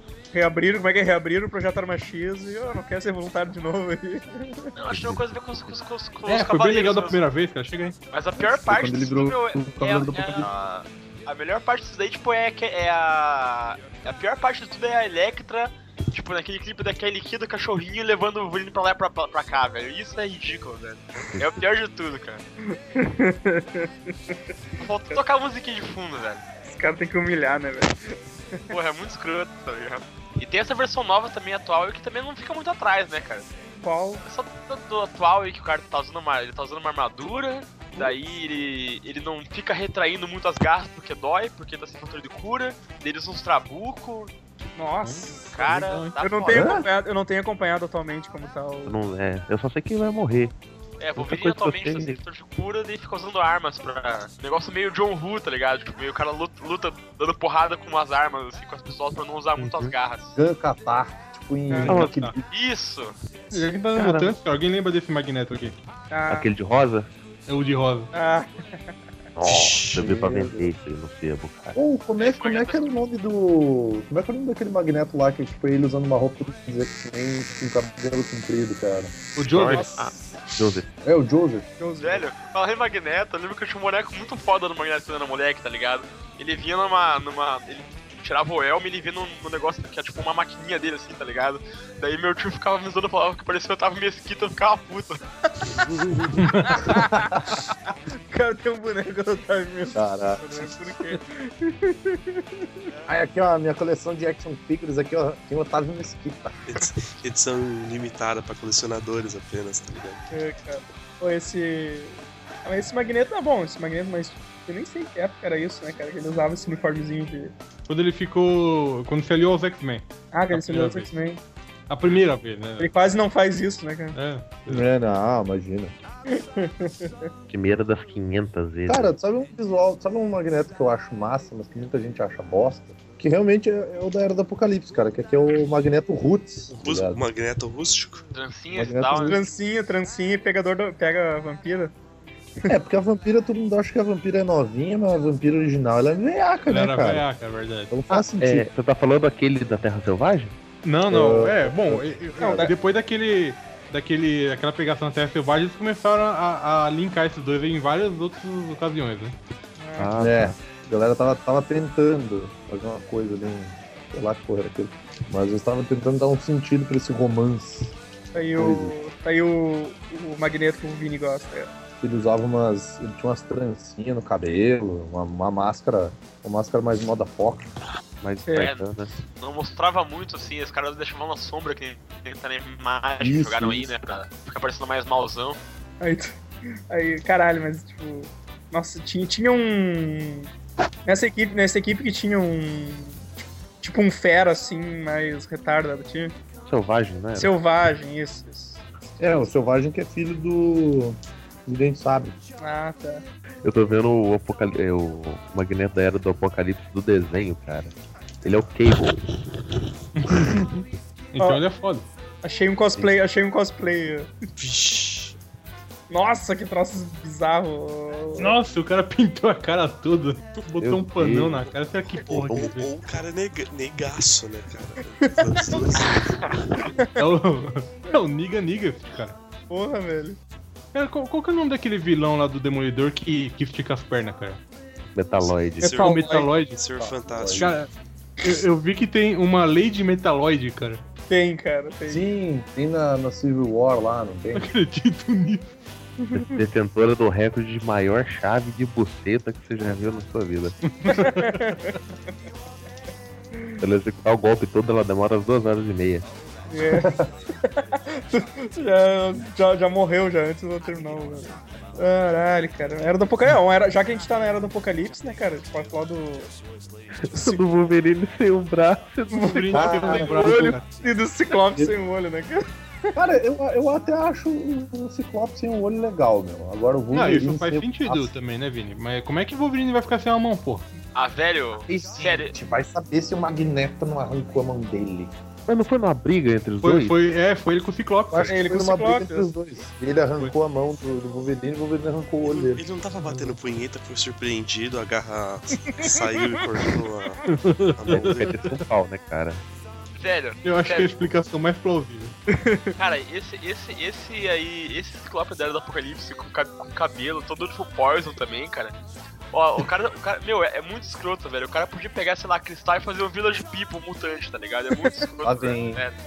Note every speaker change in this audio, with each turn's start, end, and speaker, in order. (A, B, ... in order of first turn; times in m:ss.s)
0:00.3-0:04.7 A
0:04.8-0:07.2 B
0:04.9-0:05.8 C
0:06.3-0:08.0 D
0:08.1-0:22.4 B
0:08.4-0:10.5 E
0:22.7-0:24.4 A
0:24.8-0:26.4 B
0:26.7-0:27.9 A
0:28.7-0:33.5 B
0:33.7-0:34.2 A
0:34.2-0:44.3 B
0:44.8-0:45.5 A
0:45.0-0:46.1 D
0:45.5-0:46.8 B
0:46.2-0:49.0 A
0:46.5-0:46.9 E
0:48.8-0:50.5 C
0:51.0-1:00.4 B
0:51.2-0:52.2 C
0:59.6-0:59.9 C
1:00.4-1:02.4 E
1:01.7-1:02.0 A
1:01.8-1:02.4 D
1:01.9-1:02.2 C
1:02.5-1:03.1 B
1:03.5-1:05.8 D
1:03.9-1:04.3 C
1:06.1-1:06.5 A
1:06.3-1:07.1 C
1:07.5-1:08.1 D
1:08.1-1:08.8 A
1:09.4-1:11.8 C
1:09.4-1:10.0 F
1:09.9-1:10.7 E
1:11.7-1:19.1 E
1:12.2-1:12.9 B
1:19.4-1:20.0 D
1:19.5-1:20.9 C
1:21.0-1:21.7 E
1:21.8-1:22.3 A
1:22.0-1:35.2 B
1:35.9-1:36.3 F
1:36.4-1:36.8 D
1:36.6-1:37.4 A
1:36.9-1:37.6 E
1:38.3-1:42.9 A
1:39.9-1:40.6 E
1:43.1-1:46.6 E
1:46.7-1:50.2 F
1:50.3-1:57.5 A
1:57.9-2:01.1 D
2:00.3-2:01.4 A
2:01.9-2:02.9 D
2:02.8-2:04.2 A
2:04.1-2:04.9 D
2:04.7-2:05.9 E
2:06.3-2:07.3 A
2:07.5-2:09.1 C
2:08.9-2:17.2 E
2:16.7-2:18.2 F
2:18.3-2:19.4 B
2:18.7-2:19.4 E
2:19.2-2:21.9 A
2:22.7-2:27.2 E
2:26.7-2:27.9 D
2:27.9-2:28.7 E
2:28.4-2:30.6 C
2:30.8-2:39.4 D
2:31.1-2:32.7 E
2:32.4-2:32.7 A
2:39.8-2:40.1 A
2:40.0-2:40.5 C
2:40.2-2:47.9 E
2:48.3-2:51.7 A
2:48.5-2:49.0 E
2:52.0-2:57.7 E
2:58.2-2:59.1 C
2:58.4-2:58.7 A
2:58.6-2:58.8 B
2:59.4-3:05.6 B
3:03.2-3:03.9 E
3:06.0-3:06.4 A
3:06.9-3:10.5 A
3:11.0-3:16.3 A
3:16.6-3:17.5 C
3:17.4-3:18.8 A
3:19.2-3:22.3 E
3:22.6-3:23.2 A
3:23.6-3:29.2 C
3:30.2-3:30.8 D
3:31.3-3:32.0 D
3:32.4-3:34.3 A
3:34.6-3:35.4 F
3:36.1-3:38.6 A
3:38.4-3:42.9 D
3:40.8-3:41.7 C
3:42.2-3:46.9 F
3:45.4-3:45.8 A
3:47.1-3:49.4 D
3:49.7-3:50.4 A
3:50.9-3:54.6 D
3:55.1-3:56.1 C
3:55.8-3:57.8 F
3:55.8-3:56.5 A
3:55.9-3:56.8 D
3:57.0-3:57.7 E
3:57.5-4:01.0 D
4:01.3-4:02.2 A
4:02.1-4:04.7 E
4:04.5-4:05.7 D
4:06.2-4:06.6 A
4:06.3-4:10.8 C
4:10.8-4:12.0 D
4:11.1-4:12.0 A
4:13.5-4:13.8 A
4:13.8-4:16.2 C
4:16.7-4:26.5 A
4:16.9-4:17.2 E
4:27.3-4:29.8 C
4:27.3-4:27.6 A
4:29.3-4:32.6 A
4:29.4-4:30.8 D
4:29.7-4:30.8 E
4:33.1-4:38.3 E
4:37.1-4:40.8 D
4:41.1-4:42.5 B
4:41.9-4:45.3 E
4:45.7-4:47.2 C
4:46.8-4:48.5 D
4:48.3-4:52.8 E
4:48.5-4:49.5 A
4:52.4-4:57.4 F
4:53.2-4:53.6 D
4:55.9-4:56.9 A
4:57.4-4:58.8 D
4:58.0-4:58.5 F
4:58.1-4:59.6 C
5:00.2-5:01.3 B
5:00.6-5:02.3 D
5:02.5-5:03.0 A
5:03.0-5:09.0 B
5:09.5-5:16.2 B
5:15.4-5:16.0 E